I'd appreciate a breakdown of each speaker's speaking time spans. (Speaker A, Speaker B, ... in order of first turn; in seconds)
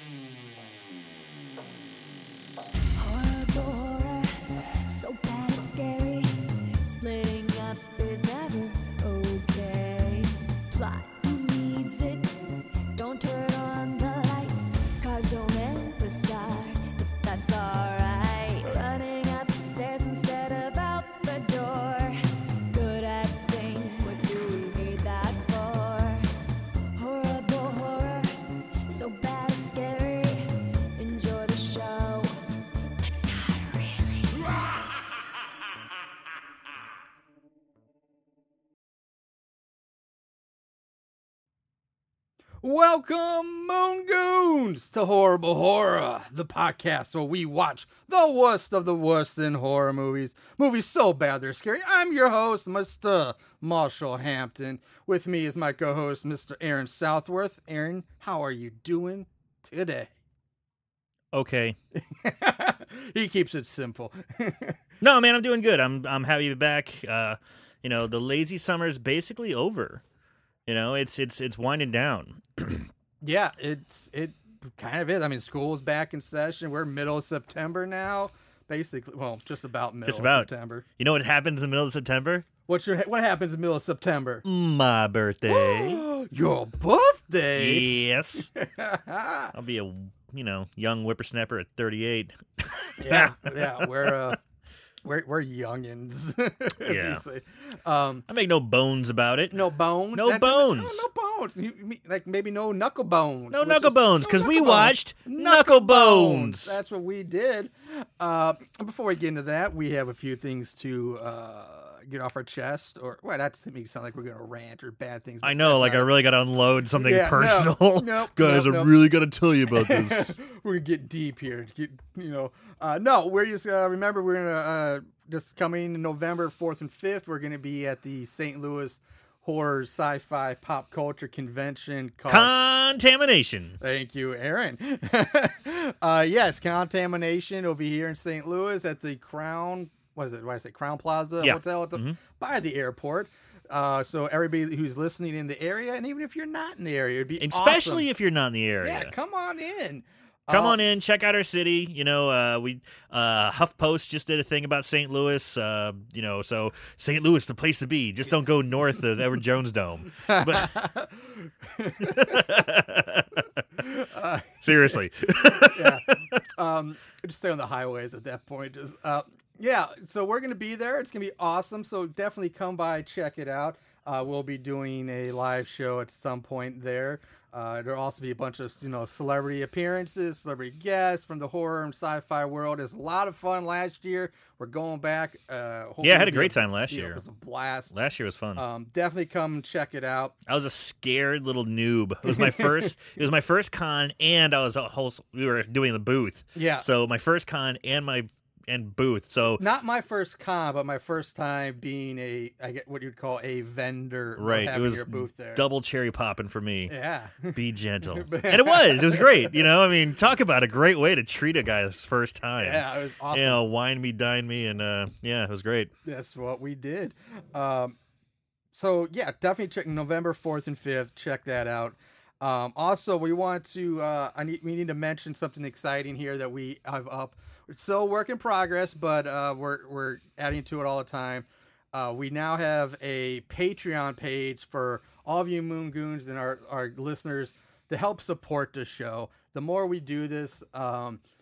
Speaker A: 3.0-4.3, 4.8-6.3, 6.8-22.2, 22.7-26.2, 26.9-28.3, 28.9-30.4, 30.9-32.3, 33.0-34.4
Speaker B: 42.6-60.1, 61.9-64.8, 73.2-80.8, 82.7-84.4, 85.5-88.0, 88.5-89.5, 93.0-94.4, 95.0-98.2, 99.5-116.1, 117.0-119.0, 119.7-132.5, 133.8-148.1, 148.8-150.8, 160.2-162.5, 163.8-164.9, 165.5-187.9, 188.6-190.3, 192.2-193.0, 196.5-196.9, 199.6-205.6, 206.9-209.7, 212.6-213.6, 216.0-217.9, 218.7-241.2
Speaker C: 61.3-61.8, 65.0-70.0, 70.7-72.9, 80.0-82.5, 84.4-86.0, 87.5-88.5, 89.5-94.3, 96.8-97.2, 98.3-99.6, 100.1-101.0, 103.5-106.8, 115.4-120.3, 132.3-133.8, 141.4-142.2, 147.4-149.1, 150.5-160.8, 162.0-163.4, 164.6-166.4, 186.0-187.2, 187.9-188.6, 190.5-199.6, 204.4-206.9, 207.5-215.9